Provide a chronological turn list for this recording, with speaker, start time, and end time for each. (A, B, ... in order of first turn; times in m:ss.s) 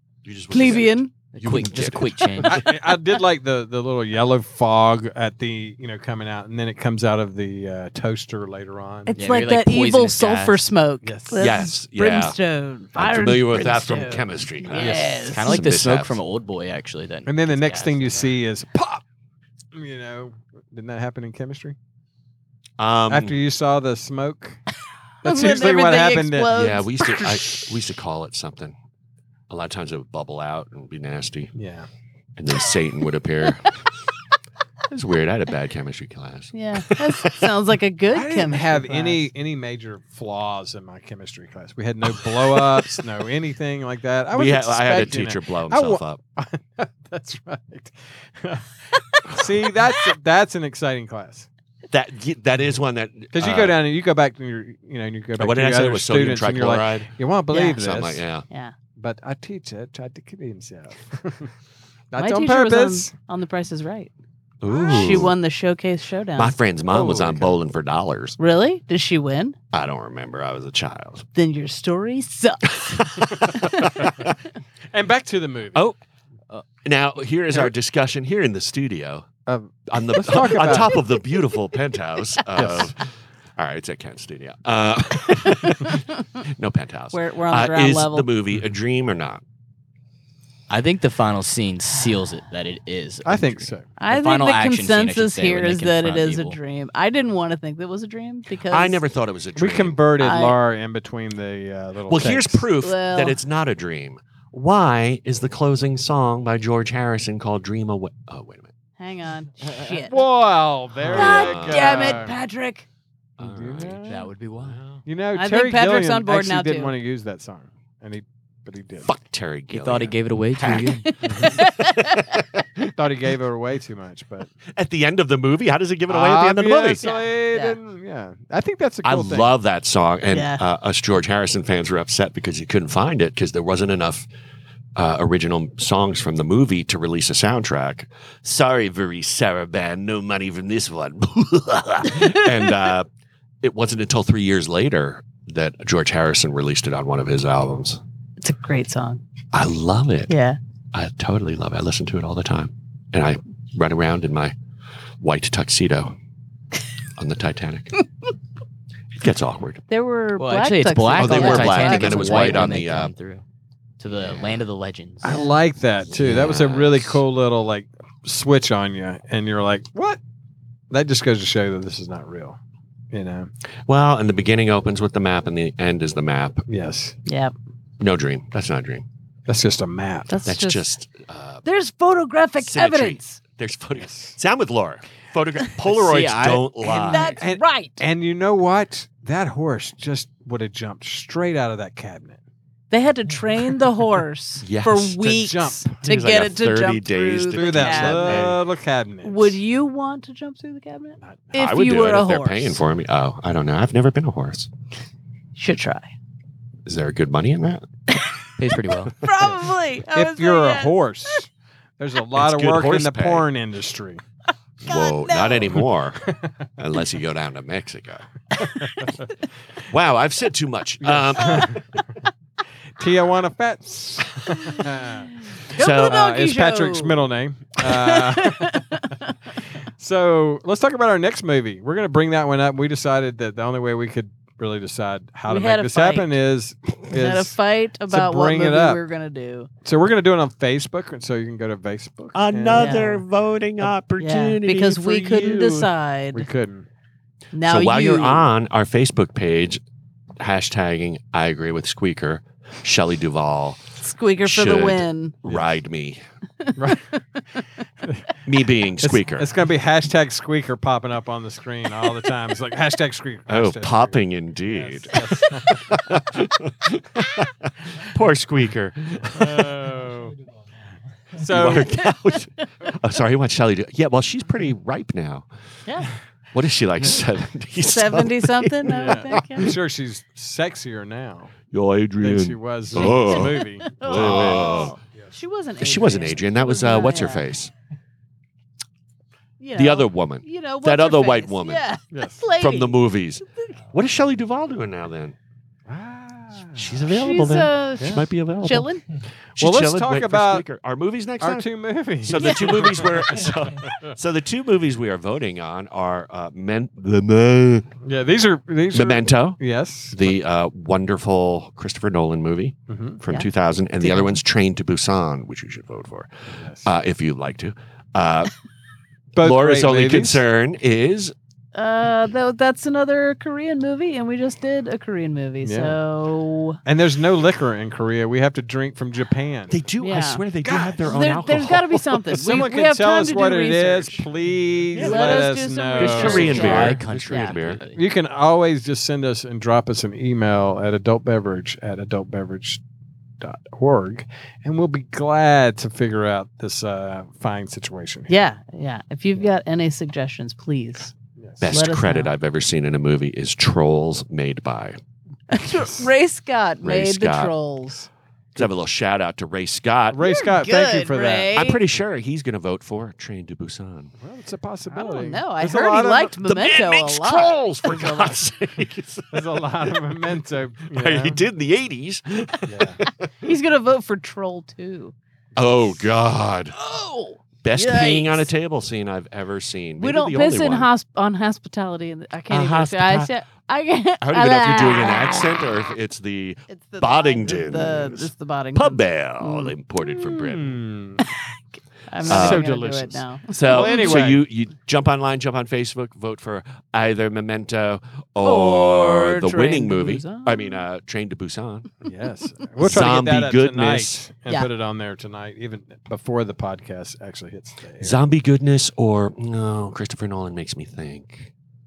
0:00.2-0:02.6 A
0:00.5-0:01.1 B
0:01.3-0:02.6 C
0:02.4-0:09.2 D
0:09.1-0:15.6 B
0:09.1-0:10.6 C
0:11.0-0:11.4 D
0:11.4-0:12.4 A
0:12.9-0:16.2 A
0:14.7-0:18.4 C
0:17.2-0:19.0 D
0:19.7-0:21.8 D
0:22.8-0:23.4 A
0:23.1-0:24.6 D
0:25.2-0:26.6 D
0:25.2-0:27.4 B
0:26.5-0:28.8 A
0:29.5-0:31.5 A
0:31.5-0:31.9 D
0:32.4-0:33.7 A
0:34.9-0:37.5 A
0:36.5-0:39.2 B
0:38.1-0:51.5 D
0:42.2-0:43.0 A
0:44.3-0:46.2 A
0:51.9-0:53.8 A
0:53.3-0:58.2 D
0:55.4-0:57.1 A
0:57.5-0:57.8 B
0:57.7-0:58.5 A
0:58.5-0:58.7 B
0:59.0-1:01.5 D
1:02.1-1:03.1 D
1:02.2-1:04.1 B
1:04.6-1:05.4 A
1:04.7-1:06.5 B
1:04.7-1:05.2 D
1:06.4-1:08.4 A
1:06.9-1:07.6 D
1:08.4-1:09.6 B
1:09.7-1:11.3 A
1:11.4-1:13.9 B
1:12.7-1:14.3 A
1:14.9-1:15.8 D
1:16.8-1:19.3 A
1:19.4-1:21.0 D
1:19.9-1:23.0 A
1:22.6-1:22.9 D
1:23.6-1:29.4 A
1:27.1-1:28.3 B
1:30.7-1:36.6 C
1:33.2-1:33.9 D
1:34.0-1:39.0 B
1:38.7-1:40.0 A
1:39.6-1:42.6 D
1:40.2-1:40.6 B
1:42.1-1:48.7 A
1:42.8-1:43.4 B
1:49.0-1:50.2 B
1:50.0-1:52.4 D
1:51.0-1:52.2 A
1:51.1-1:52.8 B
1:53.4-1:55.0 A
1:53.4-1:54.3 D
1:54.1-1:54.8 C
1:55.0-1:59.1 D
1:55.4-1:56.9 B
1:59.0-2:00.9 A
1:59.7-2:01.0 C
2:00.8-2:02.1 B
2:01.2-2:01.5 D
2:01.4-2:02.9 A
2:03.0-2:04.5 D
2:04.7-2:07.0 A
2:06.1-2:09.5 D
2:07.0-2:07.8 B
2:09.0-2:14.3 A
2:10.3-2:10.6 B
2:15.0-2:23.1 A
2:23.6-2:28.0 A
2:28.4-2:29.2 B
2:29.5-2:30.3 A
2:30.3-2:30.6 B
2:30.9-2:34.5 A
2:35.2-2:36.2 A
2:37.2-2:37.9 A
2:39.1-2:39.8 A
2:39.9-2:42.8 B
2:40.4-2:43.4 C
2:41.1-2:43.1 A
2:44.0-2:45.4 C
2:44.1-2:44.6 A
2:45.2-2:50.2 D
2:45.2-2:45.5 B
2:46.1-2:47.2 A
2:50.9-2:52.6 D
2:53.1-2:53.5 D
2:53.9-2:56.6 A
2:56.7-2:57.2 D
2:57.2-2:57.5 B
2:58.0-2:59.0 A
2:59.5-3:00.4 D
3:00.3-3:00.9 B
3:00.4-3:01.6 A
3:01.6-3:03.4 B
3:02.6-3:07.4 A
3:04.0-3:04.4 D
3:05.9-3:07.1 C
3:06.8-3:08.0 B
3:07.4-3:12.4 D
3:12.9-3:18.5 B
3:14.6-3:15.2 A
3:15.2-3:16.0 D
3:16.0-3:18.6 A
3:17.5-3:19.6 D
3:19.2-3:22.8 B
3:21.2-3:21.5 D
3:21.5-3:24.7 A
3:25.6-3:26.1 B
3:26.9-3:27.9 A
3:28.1-3:28.4 B
3:28.6-3:29.2 C
3:29.2-3:31.0 B
3:30.1-3:34.2 D
3:32.3-3:33.5 A
3:34.8-3:36.2 A
3:34.9-3:35.8 B
3:36.8-3:38.2 A
3:38.6-3:39.3 D
3:39.8-3:41.7 A
3:41.0-3:42.0 D
3:43.0-3:45.3 D
3:45.7-3:46.2 A
3:45.7-3:47.2 B
3:46.0-3:49.0 D
3:47.8-3:49.3 B
3:50.0-3:59.0 D
3:55.5-3:56.4 B
3:57.1-3:59.7 B
3:59.8-4:03.2 D
4:02.3-4:05.9 A
4:02.7-4:03.2 B
4:04.2-4:06.4 B
4:06.3-4:06.9 D
4:07.5-4:08.4 B
4:07.6-4:09.8 A
4:10.4-4:13.8 A
4:14.0-4:15.4 B
4:14.4-4:16.2 A
4:16.8-4:17.1 D
4:18.4-4:19.6 A
4:19.0-4:25.9 D
4:23.5-4:29.9 A
4:29.3-4:30.3 D
4:31.3-4:31.9 D
4:31.4-4:35.5 A
4:35.9-4:36.1 B
4:36.5-4:39.7 A
4:37.8-4:39.7 B
4:38.9-4:41.5 D
4:41.7-4:44.9 A
4:42.2-4:45.3 D
4:43.1-4:47.4 B
4:45.8-4:47.7 A
4:49.6-4:53.0 B
4:49.7-4:51.8 A
4:52.1-4:52.4 D
4:52.6-4:55.4 A
4:55.9-4:57.0 D
4:56.8-4:58.9 A
4:57.1-4:59.0 B
4:58.0-4:58.2 D
4:59.6-5:00.6 D
4:59.6-5:07.9 A
5:01.4-5:04.1 D
5:02.4-5:03.1 B
5:08.0-5:10.3 D
5:08.9-5:09.6 A
5:10.1-5:16.3 A
5:12.9-5:13.2 D
5:16.5-5:16.9 D
5:16.8-5:18.5 A
5:19.3-5:20.4 D
5:19.4-5:21.3 A
5:21.7-5:26.8 B
5:25.6-5:26.0 D
5:26.9-5:29.7 D
5:29.7-5:32.3 A
5:30.0-5:30.4 B
5:30.6-5:31.1 D
5:31.0-5:34.2 B
5:32.3-5:36.8 D
5:34.9-5:37.5 B
5:34.9-5:37.8 A
5:36.2-5:38.0 C
5:37.9-5:42.8 D
5:43.4-5:48.3 D
5:48.3-5:51.1 B
5:51.6-5:55.0 A
5:51.6-5:52.3 B
5:55.5-5:58.1 B
5:55.5-5:56.1 D
5:56.8-5:57.5 A
5:58.5-6:00.3 A
6:00.1-6:01.6 D
6:00.2-6:01.8 B
6:01.5-6:04.1 A
6:04.2-6:06.3 D
6:04.9-6:08.3 B
6:06.4-6:09.6 A
6:09.3-6:11.4 D
6:10.9-6:13.5 A
6:12.6-6:13.0 D
6:13.4-6:15.1 B
6:15.6-6:16.8 A
6:16.8-6:18.5 B
6:17.6-6:20.9 A
6:20.0-6:25.4 B
6:22.5-6:23.3 A
6:24.2-6:30.8 A
6:26.7-6:29.7 B
6:30.2-6:31.2 D
6:32.1-6:34.2 B
6:32.2-6:34.4 D
6:32.2-6:32.6 A
6:33.5-6:41.9 A
6:38.4-6:40.8 B
6:42.0-6:48.2 D
6:42.8-6:44.2 A
6:48.0-6:51.5 A